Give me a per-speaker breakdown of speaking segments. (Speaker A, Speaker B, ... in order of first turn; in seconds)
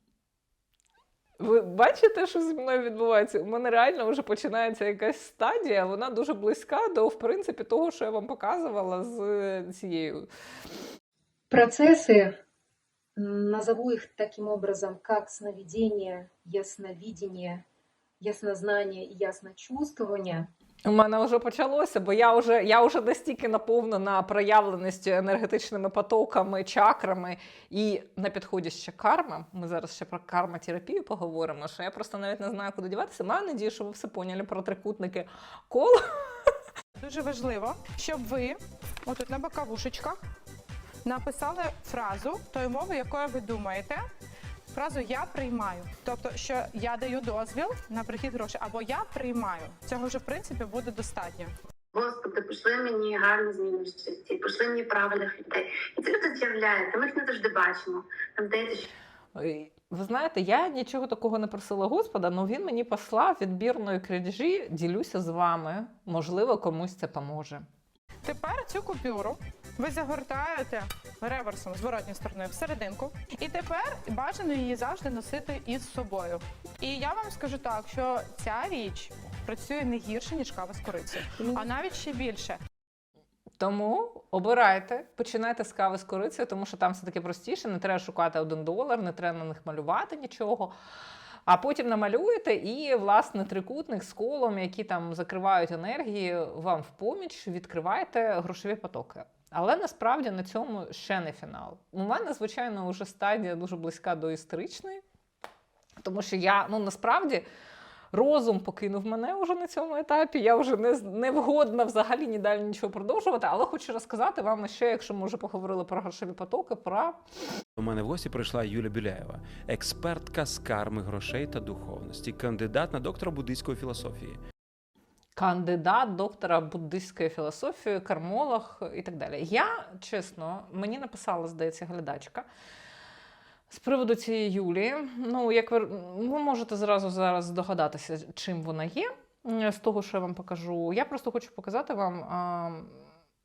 Speaker A: 1.4-10.3, 20.8-36.5, 59.3-67.6, 83.6-90.7, 91.5-105.0, 106.0-107.4, 108.1-117.2, 125.3-132.5, 133.7-143.0
Speaker B: 11.5-12.4, 13.2-17.6, 18.2-20.5
Speaker C: 37.0-40.2, 41.0-44.0, 44.7-51.5, 68.2-82.6
Speaker D: 51.9-58.8
Speaker E: 117.8-124.4